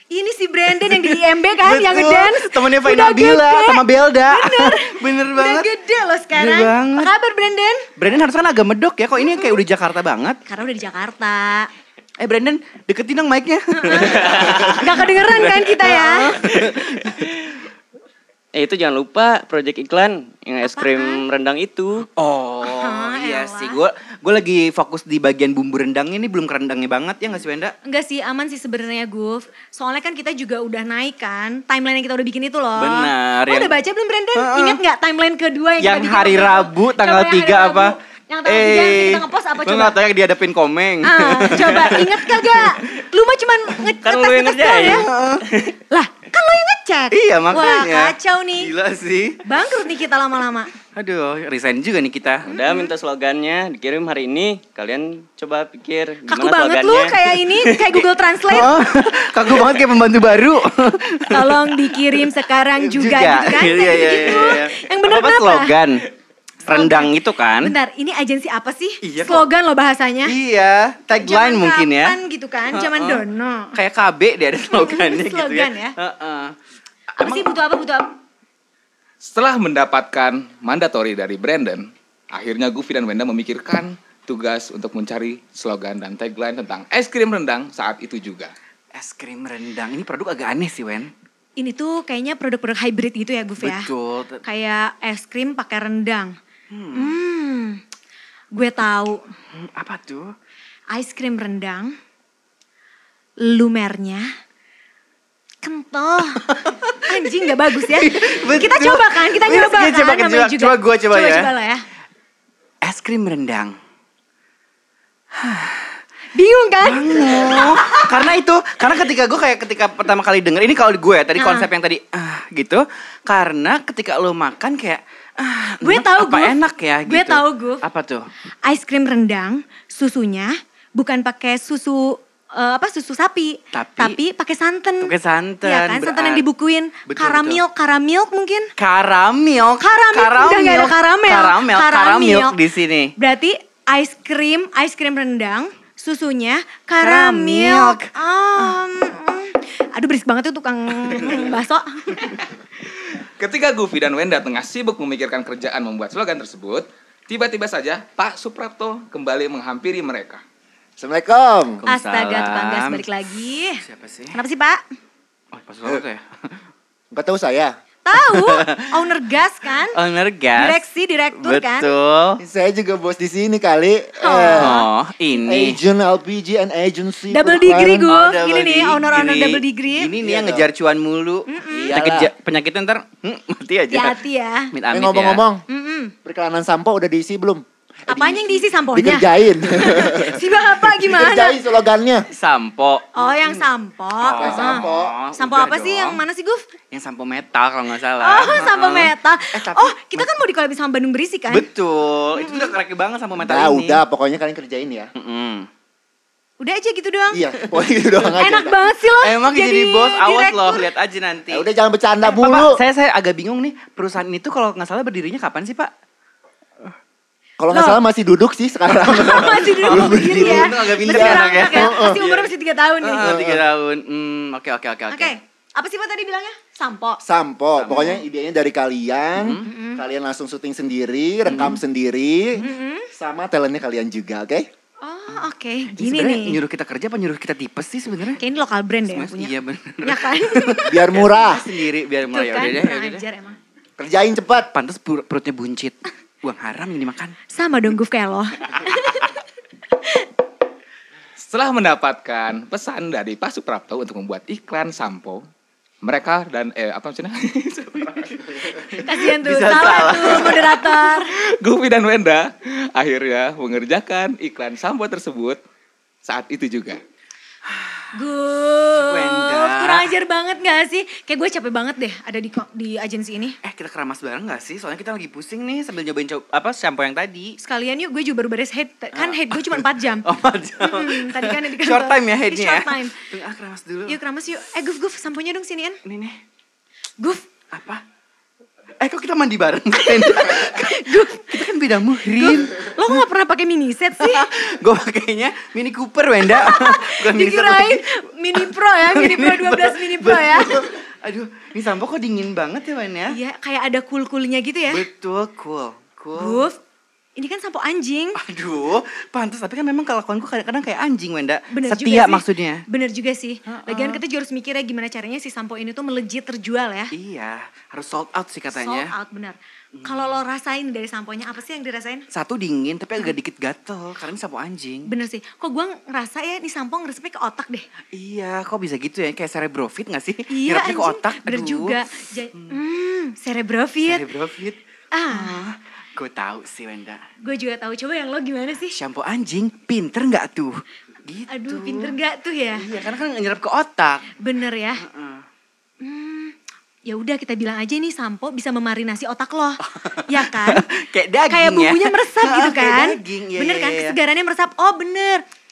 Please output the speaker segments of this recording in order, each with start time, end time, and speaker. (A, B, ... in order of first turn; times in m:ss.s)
0:00.1-0:07.9 A
0:00.7-0:05.7 B
0:06.3-0:07.1 B
0:08.0-0:10.4 B
0:09.2-0:09.6 A
0:10.4-0:11.7 A
0:12.2-0:17.4 B
0:13.8-0:16.4 A
0:14.3-0:14.6 C
0:18.5-0:22.1 C
0:20.6-0:21.2 A
0:22.1-0:27.7 B
0:22.6-0:23.8 A
0:27.8-0:40.0 A
0:32.8-0:33.7 B
0:34.3-0:34.8 B
0:35.8-0:42.7 B
0:41.0-0:45.1 A
0:44.0-0:45.1 C
0:44.8-0:45.6 B
0:45.9-0:48.7 A
0:47.1-0:49.4 B
0:49.4-0:50.7 A
0:50.9-0:52.6 B
0:52.5-0:52.9 A
0:52.5-0:58.0 C
0:56.3-0:58.8 A
0:58.5-1:02.2 B
1:01.3-1:05.8 A
1:02.8-1:06.0 B
1:06.6-1:07.7 B
1:06.6-1:10.4 A
1:09.0-1:09.5 B
1:10.2-1:12.2 B
1:11.1-1:13.8 A
1:12.7-1:13.2 B
1:13.7-1:16.5 B
1:14.7-1:15.9 A
1:17.2-1:17.6 B
1:17.2-1:18.1 A
1:19.2-1:28.5 D
1:28.9-1:31.1 B
1:31.6-1:33.9 A
1:33.6-1:34.4 B
1:34.4-1:36.4 A
1:36.7-1:37.2 B
1:36.9-1:37.8 A
1:38.5-1:39.2 A
1:39.5-1:40.3 B
1:40.9-1:42.0 A
1:43.4-1:44.3 A
1:45.6-1:51.8 A
1:46.5-1:51.5 B
1:52.8-1:53.8 B
1:55.4-1:56.0 B
1:56.3-1:58.0 A
1:56.8-2:08.3 B
2:01.4-2:01.7 A
2:05.8-2:07.8 A
2:08.6-2:18.7 A
2:13.7-2:14.2 B
2:15.0-2:16.4 B
2:17.1-2:17.6 B
2:18.8-2:23.1 B
2:19.8-2:22.6 A
2:23.2-2:32.4 A
2:27.0-2:28.8 B
2:33.2-2:40.4 D
2:41.0-2:41.8 E
2:41.8-2:43.0 B
2:41.8-2:44.8 A
2:43.8-2:44.4 B
2:45.5-2:46.6 B
2:47.1-2:47.7 E
2:48.0-2:50.0 A
2:48.1-2:49.1 B
2:49.9-2:50.8 B
2:50.6-2:51.9 A
2:51.4-2:52.4 B
2:52.4-2:54.8 E
2:54.2-2:54.9 A
2:54.5-2:55.8 B
2:55.4-2:58.1 E
2:57.3-3:00.1 A
2:58.1-3:04.2 B
3:00.2-3:00.7 E
3:01.5-3:02.0 A
3:01.7-3:02.3 E
3:03.9-3:04.7 A
3:04.7-3:05.4 B
3:04.9-3:05.6 E
3:05.7-3:06.1 A
3:06.2-3:12.3 E
3:08.1-3:11.6 A
3:12.3-3:13.6 B
3:13.1-3:16.6 A
3:14.2-3:16.2 B
3:14.4-3:15.2 E
3:16.9-3:20.3 B
3:18.2-3:21.7 A
3:21.5-3:24.0 B
3:22.4-3:22.7 A
3:23.4-3:25.1 E
3:25.1-3:25.7 B
3:26.6-3:27.5 A
3:27.3-3:28.8 E
3:28.4-3:30.9 A
3:29.2-3:31.6 B
3:31.5-3:32.8 E
3:32.2-3:35.9 B
3:37.6-3:42.2 E
3:37.7-3:38.0 A
3:39.1-3:45.4 B
3:39.1-3:43.3 A
3:43.2-3:43.6 E
3:45.1-3:47.2 A
3:47.2-3:54.7 E
3:47.8-3:48.2 B
3:47.9-3:48.2 A
3:49.4-3:49.7 B
3:49.6-3:50.0 A
3:51.5-3:51.8 B
3:52.6-3:53.1 A
3:55.0-3:56.6 A
3:56.0-3:58.4 B
3:58.4-4:01.0 A
3:59.1-4:03.2 B
4:00.8-4:01.6 E
4:02.3-4:03.6 A
4:04.0-4:04.7 E
4:04.7-4:07.4 B
4:07.5-4:09.4 A
4:10.0-4:10.3 A
4:11.4-4:15.4 D
4:16.0-4:18.9 D
4:18.9-4:21.0 B
4:19.0-4:21.3 A
4:21.3-4:25.6 D
4:26.2-4:27.0 D
4:27.7-4:28.0 B
4:28.1-4:33.6 A
4:29.0-4:30.1 B
4:33.6-4:37.6 B
4:37.6-4:40.3 A
4:39.1-4:44.2 B
4:40.8-4:43.1 A
4:44.1-4:46.0 A
4:46.0-4:46.4 B
4:47.2-4:47.4 A
4:47.7-4:48.0 B
4:49.0-4:53.2 B
4:50.0-4:51.7 A
4:52.4-4:54.5 A
4:54.2-4:58.0 B
4:56.4-5:00.9 A
4:58.6-5:03.4 B
5:03.3-5:05.0 A
5:04.9-5:06.6 B
5:06.4-5:06.8 A
5:07.4-5:08.4 A
5:08.4-5:12.8 B
5:11.7-5:17.1 A
5:13.7-5:14.2 B
5:17.1-5:19.1 B
5:18.7-5:22.2 A
5:19.9-5:20.2 B
5:22.3-5:25.1 B
5:25.1-5:27.9 A
5:28.1-5:32.0 B
5:30.5-5:34.2 A
5:34.0-5:34.8 B
5:35.1-5:35.6 A
5:35.3-5:37.2 B
5:37.4-5:39.0 A
5:38.9-5:42.1 B
5:41.5-5:42.9 A
5:42.8-5:44.3 B
5:44.4-5:45.0 A
5:45.0-5:45.4 B
5:46.0-5:46.5 A
5:47.0-5:50.8 A
5:49.8-5:54.2 B
5:51.5-5:55.4 A